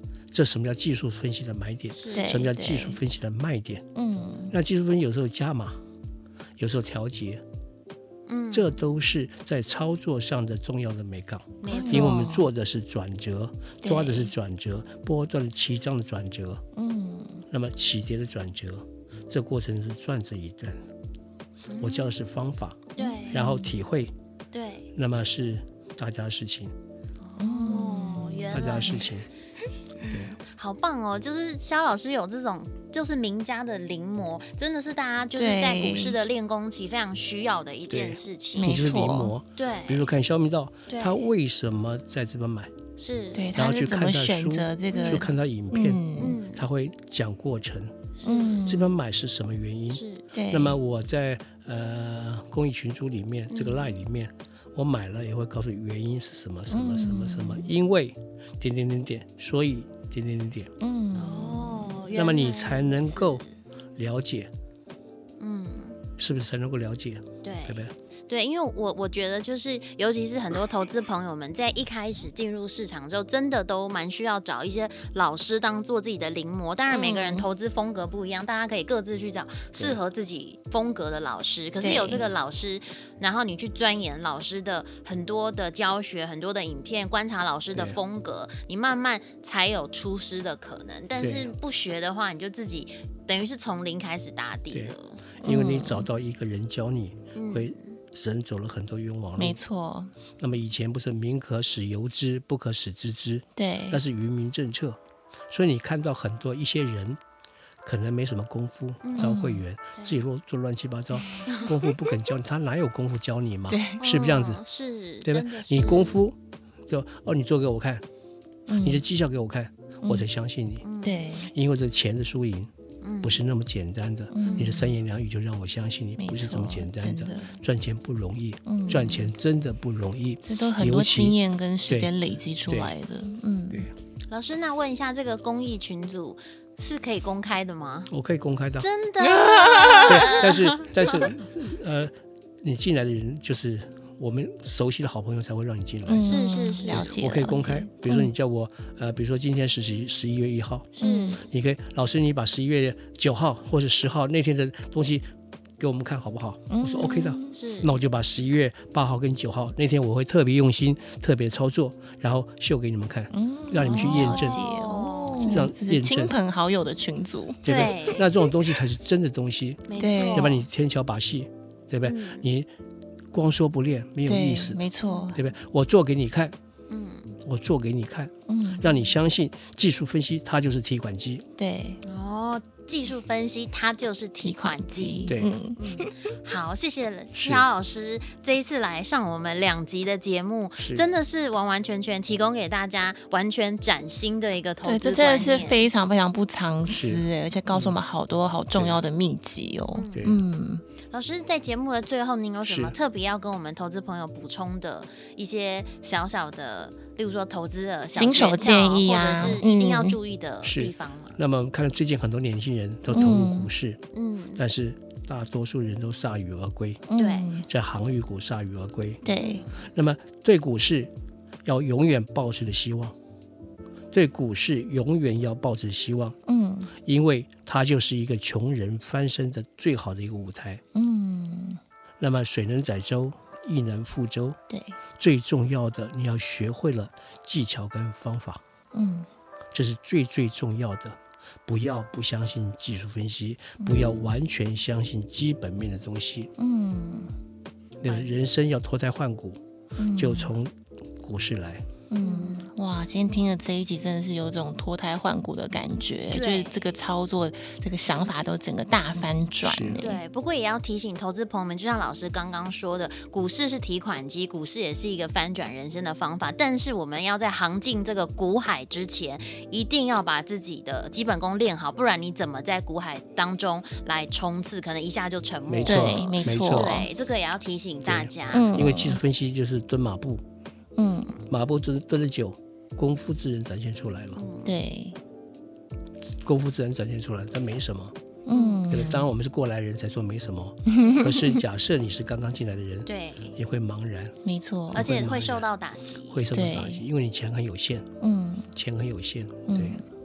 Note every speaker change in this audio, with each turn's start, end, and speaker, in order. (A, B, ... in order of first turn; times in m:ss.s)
0:00.3-0:03.9 A
0:02.0-0:02.3 B
0:02.1-0:03.0 C
0:03.9-0:04.6 C
0:04.5-0:05.8 A
0:06.6-0:07.4 A
0:08.3-0:08.8 B
0:08.5-0:16.6 A
0:11.6-0:12.3 B
0:11.7-0:12.5 C
0:13.8-0:14.3 C
0:16.7-0:17.5 C
0:17.5-0:20.8 A
0:21.7-0:22.1 B
0:21.8-0:24.1 A
0:23.0-0:23.4 B
0:23.0-0:23.7 C
0:24.5-0:24.9 B
0:24.9-0:26.7 A
0:27.2-0:29.1 B
0:27.4-0:29.2 C
0:28.5-0:29.3 A
0:30.0-0:38.8 B
0:30.1-0:30.4 A
0:35.4-0:36.2 C
0:37.9-0:42.7 A
0:38.6-0:39.3 C
0:39.6-0:40.1 B
0:40.9-0:41.3 B
0:43.0-0:43.5 B
0:43.3-0:46.4 C
0:43.6-0:48.0 A
0:44.9-0:45.3 B
0:46.2-0:46.6 B
0:48.2-0:48.6 B
0:48.2-0:48.9 C
0:48.6-1:00.7 A
0:49.9-0:50.2 B
0:50.3-0:50.8 C
0:53.5-0:53.9 B
0:56.7-0:57.7 C
1:00.8-1:02.0 C
1:01.2-1:03.5 B
1:02.1-1:03.4 A
1:04.0-1:04.5 A
1:05.4-1:06.0 B
1:06.2-1:07.9 A
1:07.4-1:35.2 B
1:16.9-1:17.5 C
1:21.8-1:22.2 C
1:31.2-1:31.5 A
1:34.7-1:39.6 A
1:35.4-1:36.1 C
1:37.4-1:37.8 B
1:39.4-1:40.1 C
1:40.4-1:45.0 A
1:43.6-1:44.0 C
1:45.5-1:47.2 A
1:47.8-1:54.6 A
1:49.0-1:49.4 B
1:49.2-1:49.6 C
1:53.7-1:54.0 C
1:54.0-1:56.2 B
1:55.2-1:56.4 A
1:56.9-1:58.0 A
1:58.7-1:59.0 C
1:58.8-2:00.8 A
2:00.8-2:01.3 B
2:01.0-2:01.5 C
2:01.5-2:02.7 A
2:03.0-2:03.4 B
2:03.2-2:12.1 A
2:04.3-2:05.0 C
2:04.4-2:04.7 B
2:06.2-2:07.5 C
2:08.7-2:09.3 C
2:10.4-2:13.9 C
2:12.7-2:12.9 A
2:14.3-2:18.1 B
2:18.1-2:18.9 A
2:18.8-2:20.8 B
2:19.2-2:20.5 C
2:20.0-2:35.3 A
2:26.1-2:28.3 C
2:26.2-2:27.2 B
2:31.0-2:31.4 B
2:31.0-2:31.4 C
2:35.8-2:44.6 A
2:36.7-2:37.5 C
2:37.5-2:38.0 B
2:43.3-2:48.8 C
2:43.8-2:45.7 B
2:45.4-2:46.3 A
2:47.6-2:52.7 A
2:47.7-2:48.3 B
2:49.9-2:50.6 B
2:50.0-2:50.6 C
2:52.0-2:52.5 B
2:53.3-2:54.8 A
2:54.3-2:55.4 C
2:55.0-2:55.4 B
2:55.4-2:56.6 A
2:56.9-2:57.4 B
2:57.4-3:01.5 A
2:58.5-2:58.9 C
3:01.6-3:02.0 C
3:02.0-3:15.8 B
3:04.4-3:06.1 C
3:07.4-3:07.6 A
3:10.8-3:11.1 A
3:14.8-3:20.8 C
3:16.9-3:17.9 A
3:18.7-3:19.0 A
3:19.9-3:20.2 B
3:20.2-3:20.4 A
3:21.1-3:31.4 B
3:22.6-3:22.9 A
3:28.1-3:30.2 C
3:30.6-3:34.0 A
3:33.1-3:33.7 C
3:34.1-3:34.6 B
3:34.6-3:37.1 A
3:37.1-3:37.7 C
3:37.2-3:37.5 B
3:37.6-3:39.2 A
3:39.2-3:39.7 C
3:39.4-3:39.8 B
3:39.8-3:41.1 A
3:41.6-3:43.1 A
3:44.1-3:46.4 A
3:46.5-3:47.0 C
3:47.0-3:50.8 A
3:50.9-3:51.8 C
3:52.2-3:54.6 A
3:54.7-3:55.0 C
3:55.2-3:58.6 A
3:58.9-3:59.3 C
3:59.7-4:06.5 A
4:03.8-4:04.2 C
4:06.6-4:07.4 C
4:08.0-4:09.6 A
4:10.0-4:10.5 C
4:10.1-4:11.9 A
4:12.1-4:20.2 C
4:12.2-4:12.6 B
4:16.3-4:16.8 B
4:19.6-4:20.0 A
4:20.0-4:38.9 B
4:35.7-4:37.0 A
4:35.9-4:37.1 C
4:38.0-4:40.4 A
4:38.5-4:39.2 C
4:41.0-4:41.4 C
4:41.5-4:44.4 A
4:44.4-4:44.8 B
4:44.6-4:45.2 C
4:46.2-4:48.2 A
4:48.5-4:49.3 C
4:48.5-4:48.8 B
4:48.9-4:54.4 A
4:50.9-4:51.6 C
4:53.1-4:53.6 B
4:54.4-4:55.1 C
4:54.9-4:55.7 A
4:54.9-4:56.4 B
4:56.3-4:58.1 A
4:56.5-4:57.0 C
4:58.2-4:58.7 C
4:58.7-5:00.0 A
4:59.7-5:00.0 C